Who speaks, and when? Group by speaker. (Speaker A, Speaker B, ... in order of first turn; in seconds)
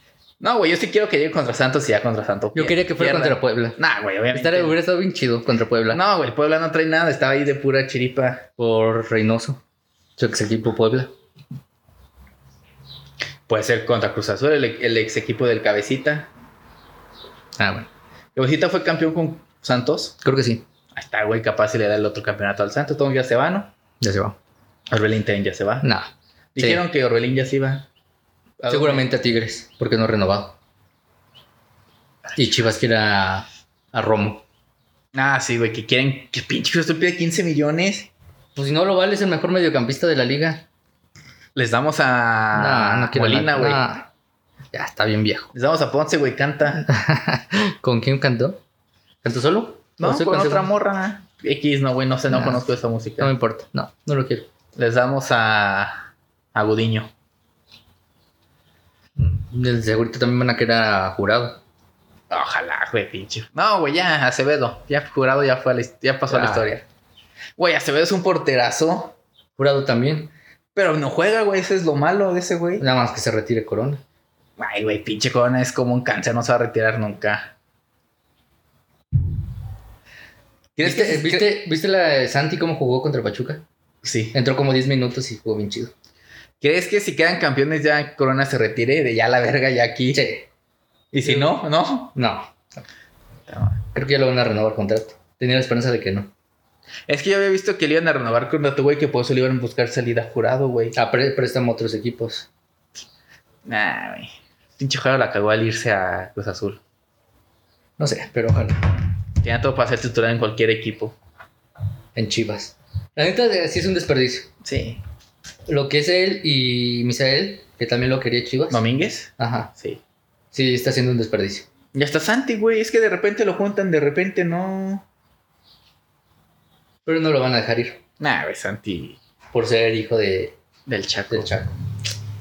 Speaker A: 0.4-4.8, 5.9-8.4, 13.5-16.3, 18.3-20.1, 20.9-23.7, 24.9-25.9, 26.5-27.9, 28.6-29.1, 35.1-38.1, 41.5-43.8, 45.5-46.9, 50.0-53.3, 54.8-57.1, 62.3-66.8, 67.6-69.2, 70.7-72.8, 74.6-77.5, 80.8-81.5, 84.0-84.3, 86.6-90.2, 91.1-92.1, 93.5-93.8, 97.1-100.9, 103.7-106.8, 109.4-111.1, 114.6-115.0, 118.7-120.0, 121.9-125.0, 128.2-129.2, 130.9-131.5
Speaker B: 2.5-3.8, 4.3-6.0, 8.6-9.6, 10.2-11.1, 17.6-17.9, 20.2-20.6, 24.0-24.4, 25.8-26.8, 28.7-30.6, 32.4-34.4, 38.5-40.6, 42.5-44.1, 44.7-45.5, 46.8-48.6, 49.2-50.7, 52.3-52.6, 53.2-54.5, 59.2-61.6, 66.3-66.7, 69.6-70.3, 72.8-74.0, 80.8-83.6, 84.3-85.9, 90.1-90.5, 91.2-91.6, 92.1-92.6, 93.9-96.3, 100.9-102.5, 108.0-108.9, 112.1-114.5, 115.7-118.8, 119.4-119.7, 120.5-121.7, 127.0-128.0, 129.5-130.6, 131.3-131.7